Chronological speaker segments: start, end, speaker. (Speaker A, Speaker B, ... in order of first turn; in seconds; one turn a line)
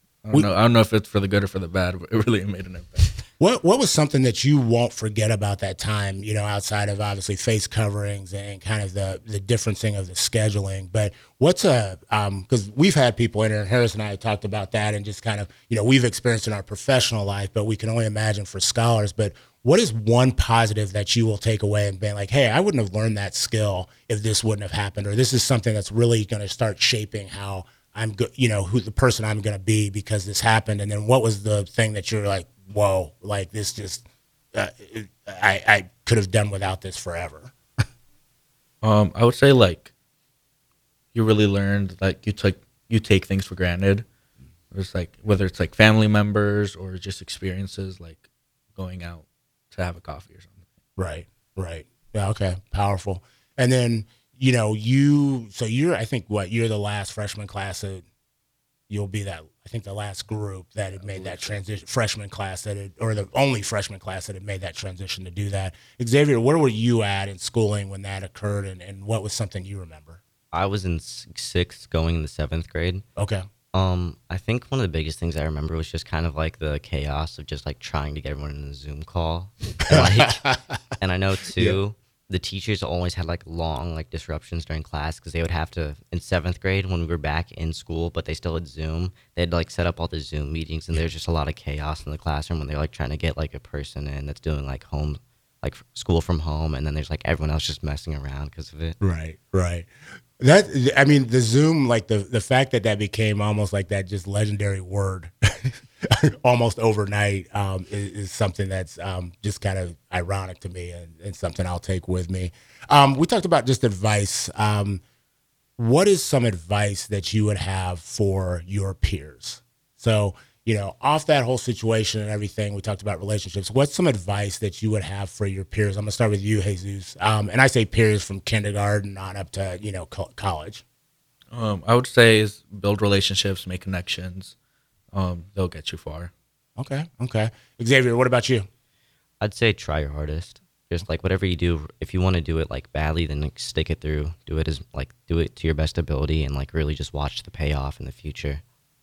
Speaker A: 0.2-3.2
Speaker B: 3.4-37.5
Speaker A: 38.8-39.9
Speaker A: 41.1-44.0
Speaker A: 44.7-50.6
Speaker B: 51.0-58.0
Speaker B: 58.9-70.2
Speaker C: 61.1-61.5
Speaker C: 70.5-73.0
Speaker B: 73.2-73.4
Speaker C: 73.7-80.4
Speaker B: 79.9-80.8
Speaker C: 81.0-99.0
Speaker B: 99.0-99.9
Speaker B: 100.4-115.0
Speaker B: 115.8-130.8
Speaker A: 131.5-134.6
Speaker A: 135.1-136.3
Speaker B: 136.8-138.7
Speaker C: 139.4-148.6